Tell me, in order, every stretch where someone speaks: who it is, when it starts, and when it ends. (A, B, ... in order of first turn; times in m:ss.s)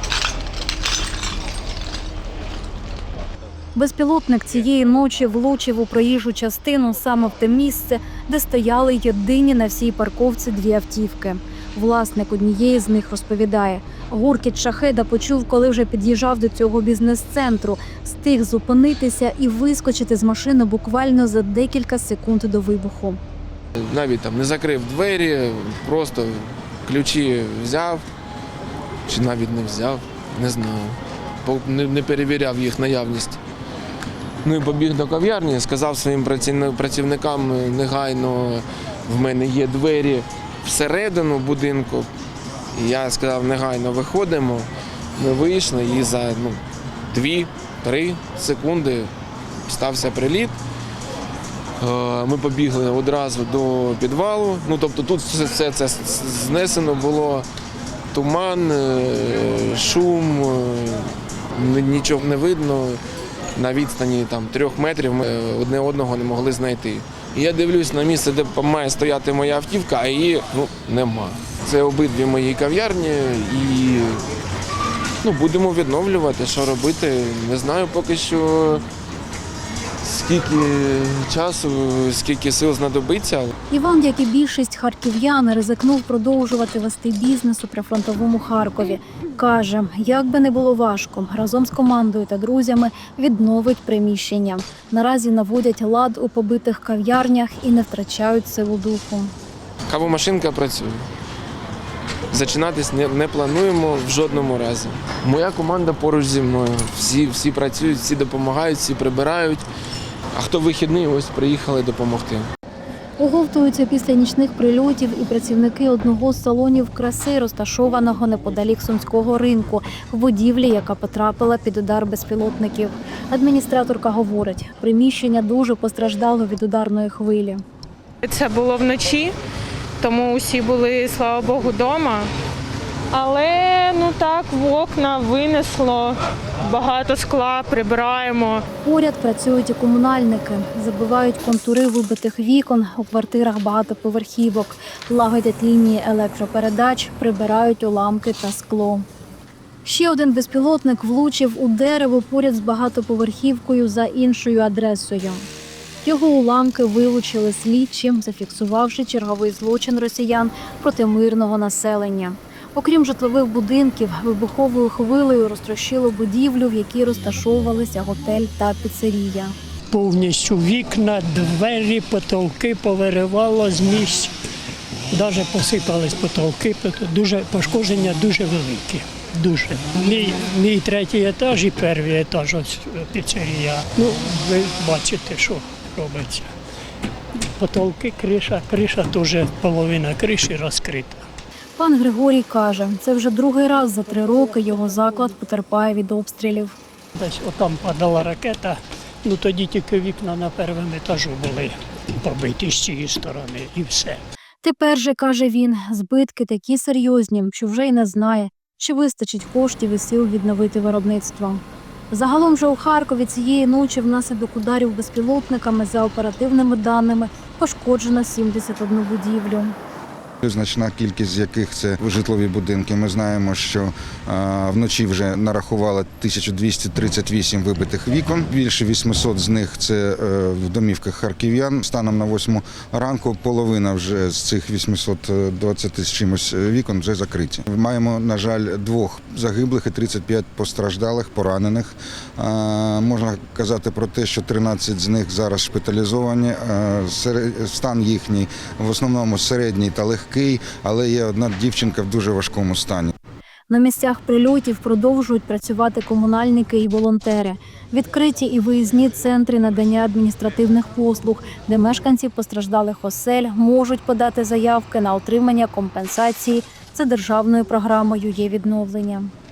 0:03.8-0:23.2 A
0:23.8-0:28.0 B
0:29.1-0:33.4 B
0:34.4-0:42.1 B
0:42.7-0:49.1 B
0:49.7-0:50.5 B
0:51.8-0:57.4 B
0:58.1-1:03.0 B
1:03.5-1:14.3 B
1:15.2-1:18.8 B
1:20.0-1:23.5 B
1:23.7-1:39.3 A
1:39.9-1:41.1 B
1:42.3-1:49.6 B
1:50.3-1:52.5 B
1:53.2-2:07.6 A
2:08.2-2:09.4 C
2:10.0-2:12.3 C
2:13.1-2:18.6 C
2:18.8-2:29.0 A
2:29.8-2:35.4 A
2:36.0-2:49.5 A
2:49.9-2:54.3 D
2:55.1-3:06.5 D
3:07.3-3:11.2 D
3:11.8-3:16.7 A
3:17.1-3:24.2 D
3:24.6-3:39.7 A
3:40.4-4:13.1 E
4:13.7-4:29.3 A